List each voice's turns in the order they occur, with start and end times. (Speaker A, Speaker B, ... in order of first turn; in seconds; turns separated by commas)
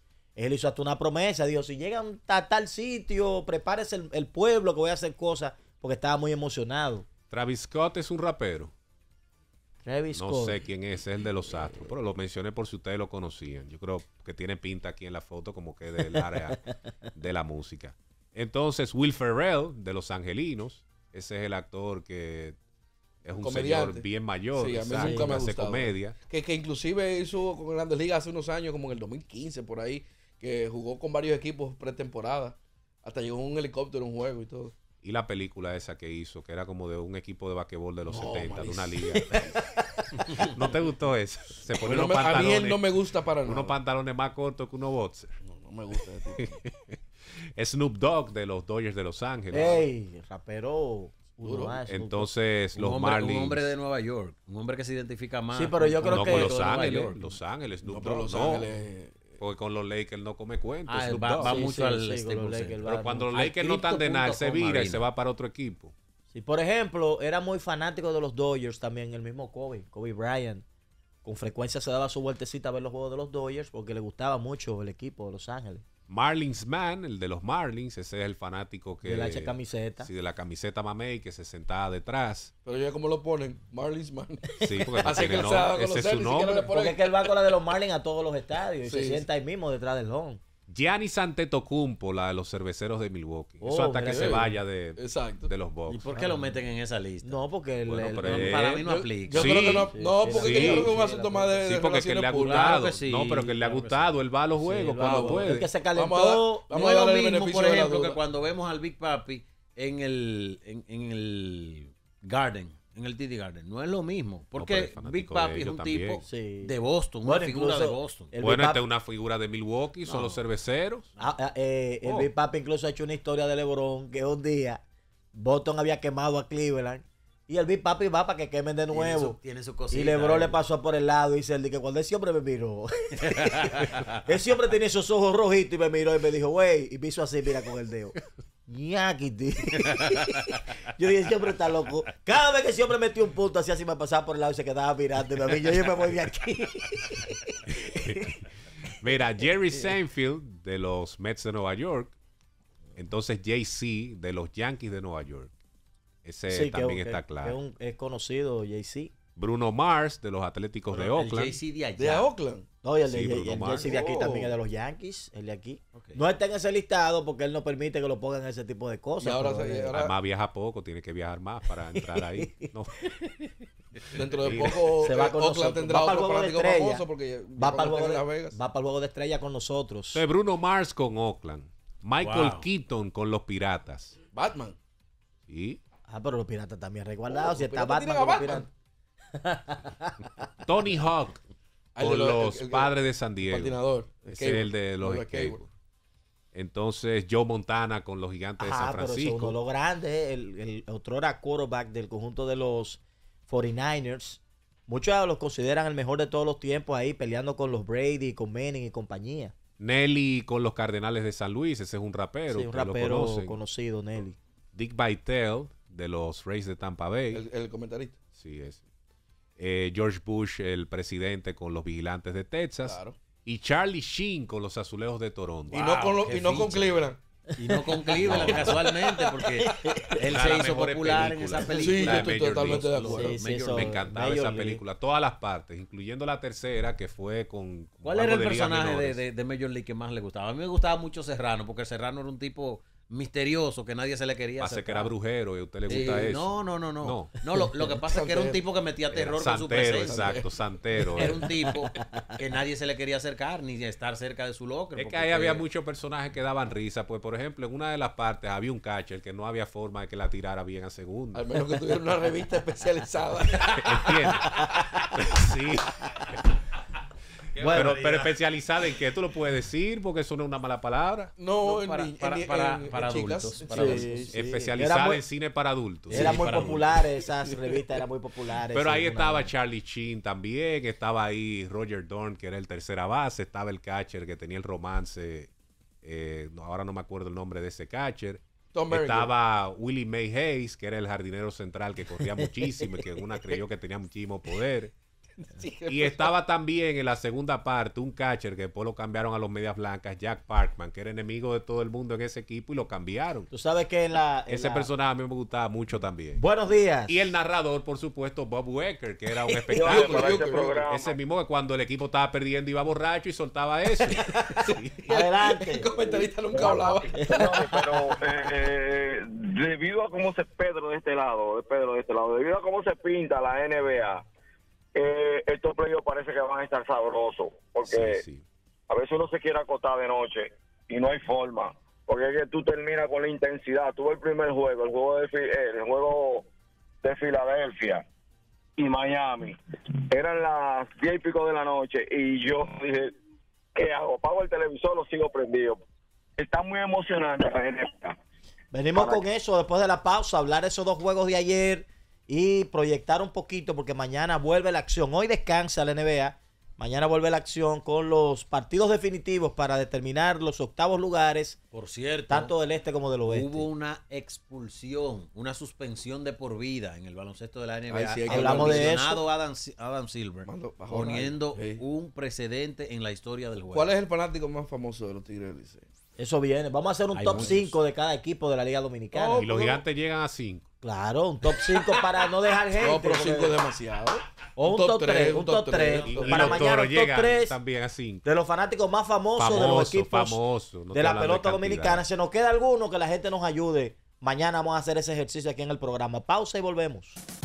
Speaker A: 0.4-7.1, Speaker B: 7.3-8.7, Speaker A: 9.8-10.6, Speaker B: 10.1-16.6, Speaker A: 16.1-16.5, Speaker B: 17.2-22.6, Speaker B: 23.2-26.2, Speaker C: 23.4-34.8, Speaker A: 25.0-25.4, Speaker B: 35.0-39.5, Speaker C: 38.0-39.0, Speaker A: 39.2-40.4, Speaker B: 40.3-42.9, Speaker C: 41.8-43.8, Speaker B: 43.4-45.4, Speaker C: 45.4-46.6, Speaker B: 46.4-47.0, Speaker B: 47.6-49.9, Speaker A: 49.5-52.3, Speaker C: 51.4-51.8, Speaker B: 51.9-53.7, Speaker D: 52.8-57.4, Speaker A: 55.5-56.5, Speaker B: 56.1-58.7, Speaker C: 57.8-59.4, Speaker B: 59.4-61.6, Speaker D: 60.9-65.0, Speaker A: 61.4-63.3, Speaker B: 62.9-65.9, Speaker A: 66.3-70.6, Speaker A: 71.2-75.8, Speaker B: 76.1-82.5, Speaker A: 79.0-80.1, Speaker C: 82.6-87.3, Speaker B: 84.6-86.7, Speaker A: 86.7-90.4, Speaker C: 88.8-89.2, Speaker B: 90.7-96.0, Speaker A: 93.6-94.6, Speaker C: 94.1-94.4, Speaker C: 95.0-95.5, Speaker D: 95.9-99.5, Speaker A: 96.1-96.6, Speaker A: 97.2-98.6, Speaker B: 97.9-100.9, Speaker C: 98.8-102.7, Speaker A: 99.5-101.7, Speaker B: 101.6-105.7, Speaker D: 102.4-104.1, Speaker A: 104.6-106.7, Speaker C: 105.0-108.2, Speaker D: 106.7-118.3, Speaker B: 114.6-116.2, Speaker A: 116.2-118.8, Speaker B: 118.4-121.1, Speaker D: 120.1-120.4, Speaker A: 121.2-124.8, Speaker D: 122.0-122.3, Speaker A: 125.3-129.4, Speaker D: 128.9-130.6, Speaker A: 129.9-148.4, Speaker D: 133.2-134.1, Speaker D: 139.9-140.6, Speaker B: 149.0-152.1, Speaker B: 152.9-155.5, Speaker B: 156.2-157.6, Speaker A: 156.5-159.1, Speaker B: 159.4-161.6, Speaker D: 160.9-162.3, Speaker C: 162.0-162.7, Speaker A: 162.8-169.9, Speaker B: 163.1-163.9, Speaker C: 163.7-164.6, Speaker C: 169.2-170.1, Speaker B: 169.9-172.9, Speaker A: 171.7-173.5, Speaker C: 174.1-178.6, Speaker B: 174.3-175.1, Speaker A: 175.0-177.1, Speaker A: 177.6-180.2, Speaker B: 180.1-184.2, Speaker D: 182.2-182.7, Speaker C: 184.3-184.8, Speaker B: 185.5-185.8, Speaker A: 186.1-188.7, Speaker C: 187.3-188.7, Speaker A: 189.3-190.4, Speaker B: 190.6-191.4, Speaker C: 191.9-195.6, Speaker B: 192.0-193.8, Speaker B: 194.3-195.7, Speaker B: 196.5-199.6, Speaker A: 198.6-209.5, Speaker B: 209.8-213.6, Speaker A: 212.5-214.4, Speaker B: 214.8-217.4, Speaker C: 217.3-218.2, Speaker B: 218.3-218.8, Speaker B: 219.6-225.9, Speaker C: 222.8-223.2, Speaker C: 225.7-227.2, Speaker D: 225.7-227.1, Speaker D: 227.6-234.1, Speaker A: 227.6-230.2, Speaker B: 228.2-228.8, Speaker B: 230.2-239.2, Speaker C: 231.8-233.3, Speaker A: 233.0-234.8, Speaker D: 238.0-245.1, Speaker B: 244.6-247.3, Speaker D: 245.9-250.4, Speaker C: 245.9-246.3, Speaker C: 248.1-248.6, Speaker B: 249.1-251.5, Speaker C: 250.0-250.5, Speaker D: 251.2-255.7, Speaker A: 251.4-252.3, Speaker B: 254.9-261.5, Speaker C: 261.3-264.2, Speaker D: 263.6-263.9, Speaker B: 263.8-266.4, Speaker A: 264.3-265.1, Speaker D: 267.5-268.3, Speaker A: 267.6-267.9, Speaker B: 267.6-271.3, Speaker C: 271.4-274.1, Speaker D: 271.6-274.4, Speaker A: 273.7-275.2, Speaker B: 274.3-276.8, Speaker D: 276.1-277.0, Speaker A: 276.1-279.5, Speaker B: 278.7-285.5, Speaker B: 286.0-294.9, Speaker C: 288.7-289.3, Speaker C: 295.4-296.3, Speaker B: 295.9-303.5, Speaker A: 303.5-304.9, Speaker B: 304.5-306.4, Speaker A: 306.4-307.3, Speaker B: 307.1-315.0, Speaker E: 309.7-311.2, Speaker C: 309.8-310.9, Speaker C: 314.1-317.7, Speaker A: 315.1-317.9, Speaker E: 316.0-324.2, Speaker E: 324.9-328.2, Speaker B: 327.9-328.4, Speaker E: 328.9-336.4, Speaker E: 337.0-338.0, Speaker E: 338.8-339.6, Speaker E: 340.1-343.1, Speaker E: 343.7-345.8, Speaker E: 346.4-348.2, Speaker A: 348.7-361.6, Speaker E: 348.9-349.3, Speaker D: 361.7-362.5, Speaker A: 362.3-363.7, Speaker D: 363.3-373.9, Speaker C: 367.9-368.9, Speaker A: 368.3-369.2, Speaker C: 370.4-371.8, Speaker C: 373.7-375.9, Speaker A: 376.2-379.4, Speaker D: 377.1-377.8, Speaker C: 379.2-379.8, Speaker B: 379.4-380.7, Speaker A: 380.8-383.6, Speaker C: 382.8-386.7, Speaker A: 384.6-387.6, Speaker B: 386.0-388.2, Speaker A: 388.2-397.2, Speaker B: 389.4-392.1